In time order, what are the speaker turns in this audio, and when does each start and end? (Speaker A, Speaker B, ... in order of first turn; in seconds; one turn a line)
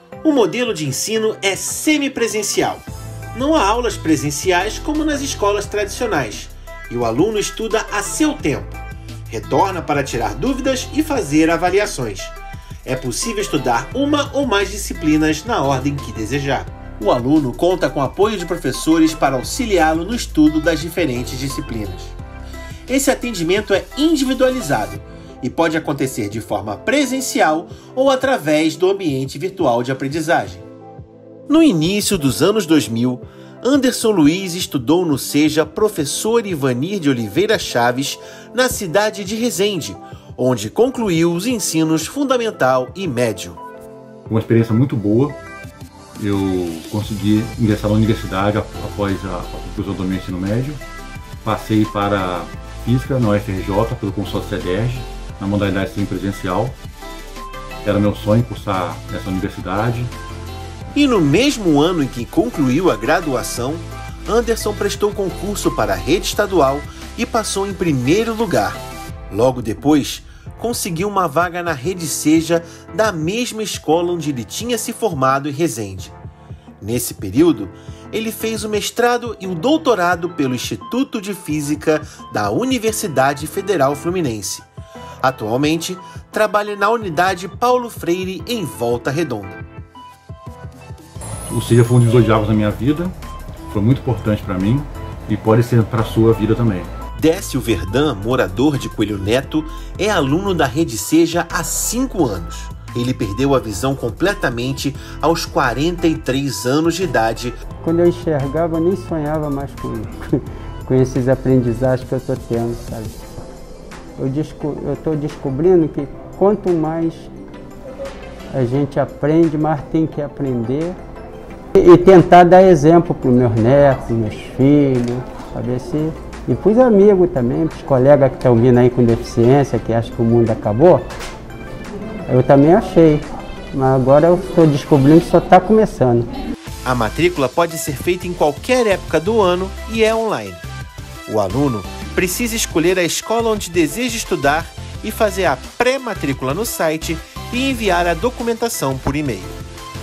Speaker A: 0.2-22.2
Speaker A: 22.9-30.7
Speaker A: 31.5-43.6
Speaker B: 44.3-45.4
Speaker B: 46.2-50.8
Speaker B: 51.4-56.8
Speaker B: 57.8-60.1
Speaker A: 60.9-76.2
Speaker A: 76.8-84.7
Speaker A: 85.2-89.7
Speaker B: 91.5-93.2
Speaker B: 93.7-96.9
Speaker A: 97.1-107.6
Speaker C: 107.8-113.2
Speaker C: 114.2-117.3
Speaker C: 118.5-121.0
Speaker C: 121.7-131.1
Speaker C: 132.3-136.3
Speaker A: 136.8-140.7
Speaker A: 141.3-149.6